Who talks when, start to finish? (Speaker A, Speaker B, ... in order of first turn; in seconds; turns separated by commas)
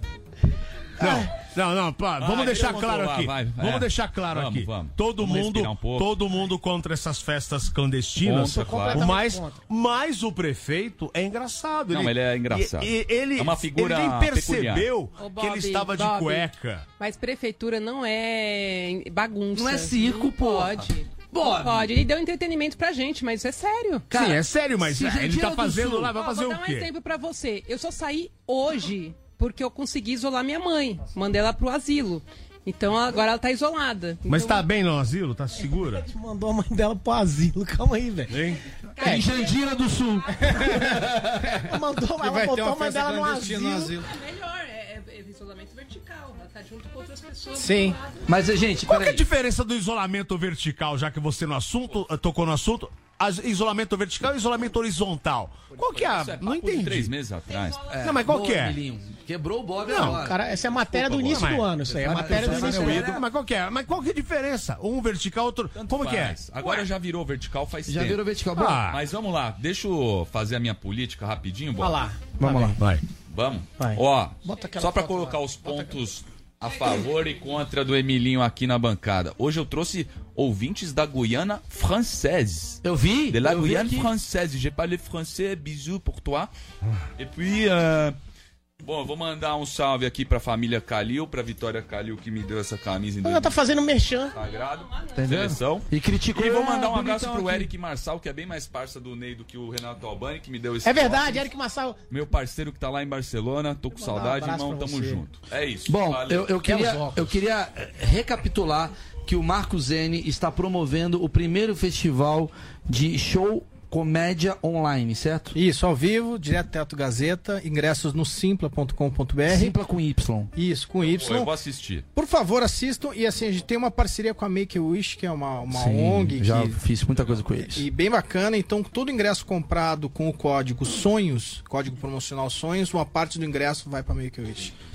Speaker A: 1.0-16.9, Speaker B: 2.2-6.2, Speaker B: 8.2-9.1, Speaker C: 8.4-9.6, Speaker B: 11.9-14.9, Speaker D: 15.2-24.1, Speaker E: 19.5-21.9, Speaker E: 24.1-26.2, Speaker A: 24.1-26.9, Speaker D: 26.1-34.6, Speaker A: 34.2-36.1, Speaker C: 35.7-38.5, Speaker A: 38.3-39.1, Speaker D: 39.0-40.4, Speaker C: 39.0-39.3, Speaker E: 39.0-41.2, Speaker F: 40.5-44.1, Speaker C: 40.5-40.9, Speaker C: 41.4-44.0, Speaker D: 44.1-48.3, Speaker F: 47.6-48.0, Speaker E: 48.3-49.2, Speaker A: 48.9-57.1, Speaker B: 55.8-57.9, Speaker E: 57.9-60.4, Speaker A: 58.0-58.8, Speaker A: 59.9-60.2, Speaker C: 60.0-63.1, Speaker E: 60.9-63.2, Speaker A: 61.1-66.4, Speaker B: 62.2-63.1, Speaker B: 65.7-68.2, Speaker E: 67.9-68.9, Speaker A: 68.6-69.0, Speaker B: 68.9-72.0, Speaker C: 71.8-72.8, Speaker E: 72.4-72.8, Speaker B: 73.3-86.5, Speaker C: 73.8-76.0, Speaker E: 82.8-84.1, Speaker B: 87.2-88.2, Speaker B: 88.8-93.6, Speaker C: 93.2-94.3, Speaker D: 94.3-95.4, Speaker B: 94.3-101.5, Speaker E: 95.2-97.7, Speaker C: 100.8-102.0, Speaker B: 102.1-107.2, Speaker C: 104.0-105.2, Speaker E: 105.9-115.6, Speaker C: 106.6-107.3, Speaker F: 115.5-119.7, Speaker E: 119.5-120.5, Speaker F: 120.6-121.5, Speaker B: 121.0-122.0, Speaker F: 122.1-126.8, Speaker E: 125.7-127.9, Speaker B: 127.2-127.4, Speaker F: 127.7-134.7